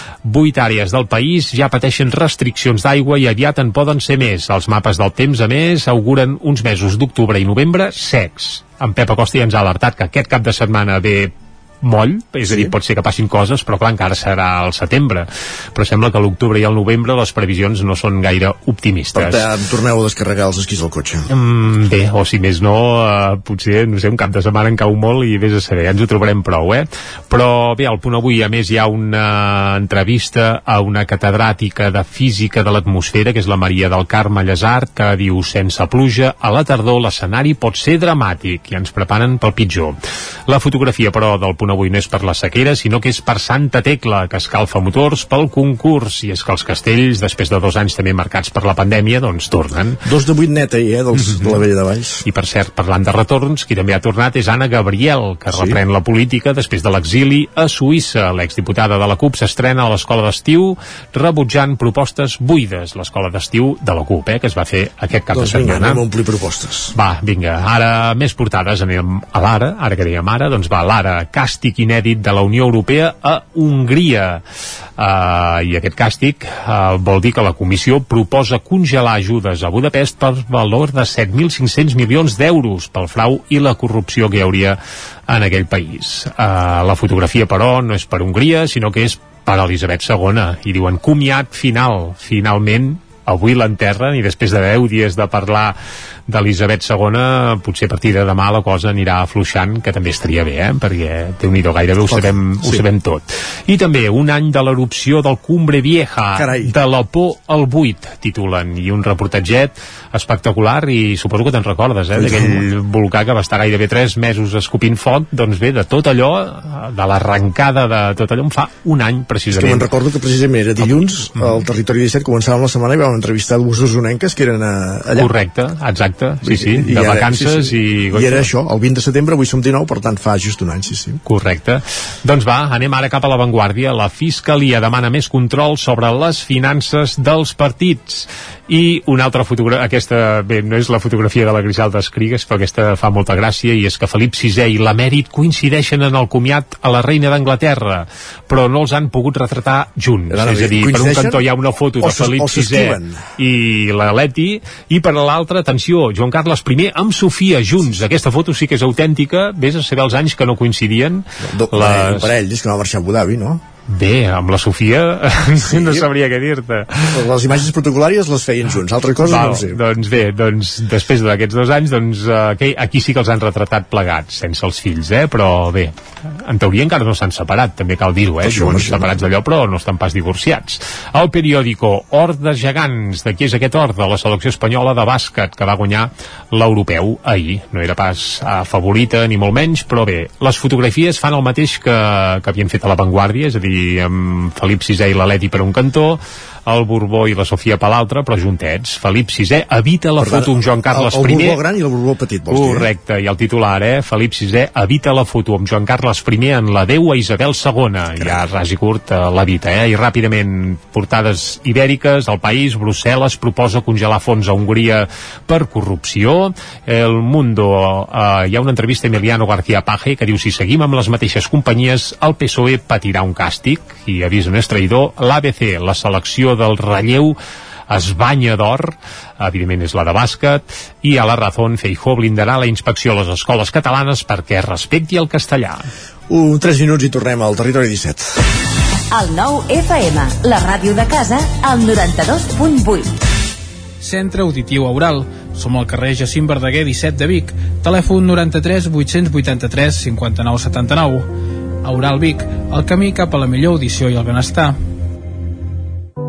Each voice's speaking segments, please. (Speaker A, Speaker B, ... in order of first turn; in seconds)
Speaker A: 0.2-19.5, 21.3-50.0, 51.3-51.6, 52.3-66.0, 66.9-74.4, 75.0-95.8, 96.3-119.9, 120.8-121.6, 125.2-128.5, 131.3-162.3, 163.9-167.2, 169.3-201.6, 202.5-227.4, 227.9-235.9
Speaker B: 12.5-12.7, 19.1-21.3, 50.0-52.2, 55.5-55.8, 65.3-66.9, 102.1-102.8, 106.4-106.7, 112.1-112.6, 119.5-125.3, 126.4-131.2, 150.3-151.4, 152.0-153.2, 161.4-163.6, 165.6-166.1, 167.1-169.8, 178.4-179.2, 200.2-202.9, 236.3-238.4
Speaker C: 239.1-243.0
Speaker D: 244.0-251.3, 251.8-254.8